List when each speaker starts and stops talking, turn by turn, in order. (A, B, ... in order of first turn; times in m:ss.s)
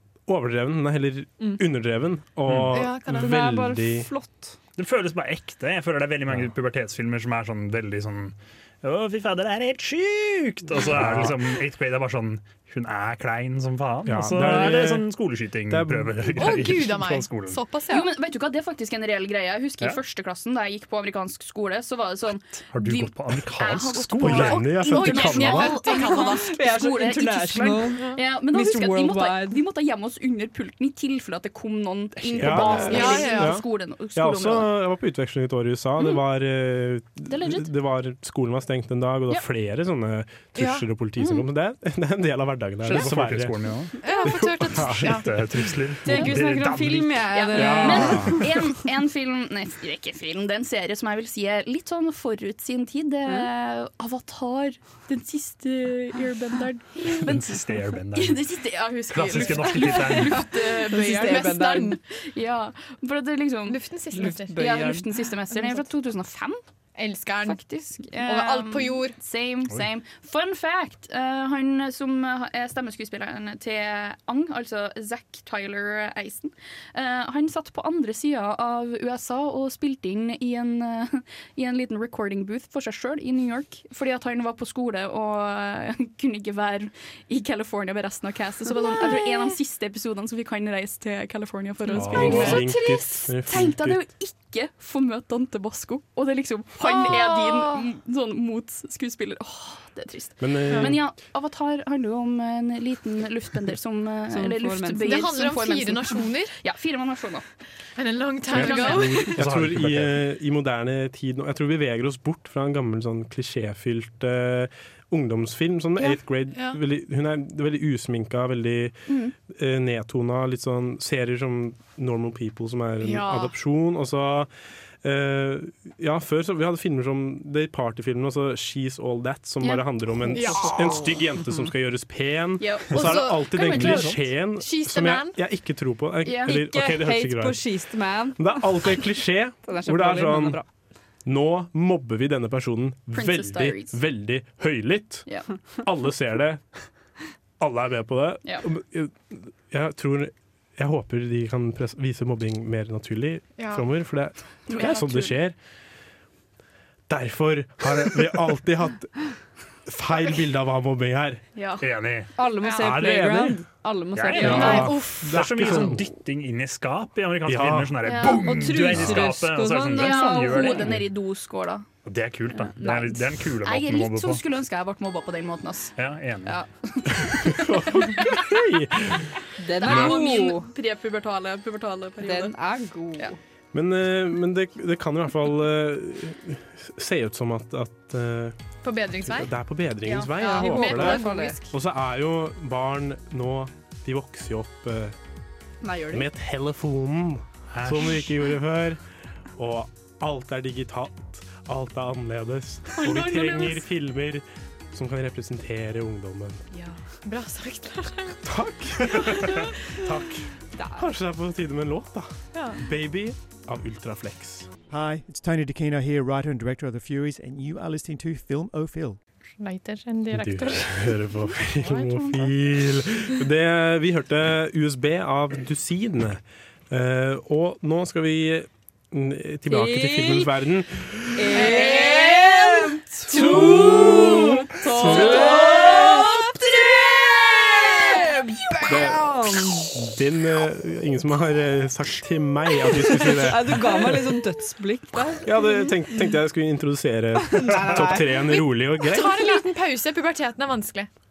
0:00.3-0:04.1 A
0:02.4-0:02.8 B
0:02.7-0:03.3 C
0:03.2-0:04.6 D
0:04.8-0:17.6 B
0:10.9-0:11.4 A
0:14.0-0:15.1 A
0:15.7-0:16.6 A
0:16.4-0:18.1 C
0:17.9-0:34.7 E
0:22.7-0:24.8 B
0:24.2-0:25.8 A
0:24.5-0:26.5 C
0:25.9-0:29.6 D
0:32.2-0:33.2 B
0:32.4-0:43.7 A
0:32.9-0:33.6 C
0:37.3-0:37.7 E
0:40.6-0:40.8 C
0:41.2-0:41.4 E
0:42.8-0:44.0 B
0:44.0-0:45.3 C
0:44.3-0:45.4 A
0:45.0-0:48.3 B
0:46.0-0:48.6 D
0:47.3-1:06.6 E
0:47.5-0:48.4 A
0:57.1-0:58.4 B
0:59.1-1:00.4 B
0:59.9-1:02.0 D
1:03.7-1:04.6 C
1:04.1-1:05.1 D
1:05.5-1:05.8 C
1:07.0-1:09.1 C
1:07.4-1:47.4 E
1:31.9-1:33.0 C
1:31.9-1:32.6 B
1:32.1-1:34.0 A
1:36.8-1:37.8 C
1:40.4-1:41.0 A
1:40.7-1:41.0 C
1:44.3-1:45.3 D
1:45.0-1:46.6 C
1:48.0-1:49.4 C
1:48.5-1:49.2 E
1:48.5-1:59.0 A
1:49.1-1:50.2 B
1:56.5-1:56.8 C
1:59.1-1:59.3 E
1:59.5-2:04.5 A
2:03.0-2:03.5 C
2:05.0-2:17.8 A
2:09.6-2:11.1 E
2:10.3-2:11.0 C
2:12.6-2:13.2 E
2:12.9-2:15.4 C
2:13.7-2:14.2 B
2:16.2-2:16.6 E
2:16.4-2:18.6 D
2:18.4-2:20.6 A
2:19.6-2:20.6 D
2:21.2-2:25.3 A
2:23.1-2:24.0 E
2:25.8-2:26.6 A
2:27.6-2:35.6 A
2:33.6-2:33.8 C
2:34.7-2:35.4 E
2:37.1-2:39.2 A
2:39.8-2:41.4 A
2:41.5-2:41.8 E
2:41.8-2:42.3 B
2:42.4-2:44.9 D
2:42.6-2:42.9 C
2:42.8-2:43.6 A
2:44.1-2:51.0 B
2:44.4-2:46.0 A
2:44.5-2:45.4 C
2:44.5-2:44.8 E
2:47.4-2:48.2 A
2:48.1-2:48.5 E
2:48.2-2:50.9 D
2:49.9-2:51.9 E
2:52.0-2:54.4 B
2:52.6-2:53.1 D
2:52.8-2:55.9 E
2:56.0-2:56.6 B
2:56.4-2:58.3 E
2:57.2-2:59.3 A
2:59.6-3:00.7 D
2:59.8-3:02.6 E
3:02.2-3:03.4 D
3:03.7-3:08.6 A
3:08.8-3:09.5 C
3:09.2-3:15.2 A
3:10.1-3:11.4 E
3:10.4-3:11.6 D
3:10.4-3:11.6 C
3:15.8-3:16.3 D
3:16.1-3:19.0 A
3:17.7-3:18.2 B
3:19.6-3:26.6 A
3:23.0-3:23.8 C
3:27.2-3:28.4 C
3:28.4-3:34.7 A
3:29.2-3:29.6 C
3:30.8-3:31.1 D
3:32.5-3:32.8 C
3:34.9-3:39.2 F
3:39.6-3:41.3 C
3:40.3-3:51.5 A
3:41.9-3:42.3 E
3:49.7-3:50.5 D
3:51.3-3:56.6 D
3:51.5-3:59.1 E
3:51.6-3:52.1 C
3:53.3-3:55.9 A
3:57.9-3:59.9 D
3:58.8-3:59.3 A
4:00.0-4:04.4 A
4:03.3-4:05.5 D
4:05.4-4:09.6 A
4:07.4-4:08.4 D
4:08.5-4:11.1 C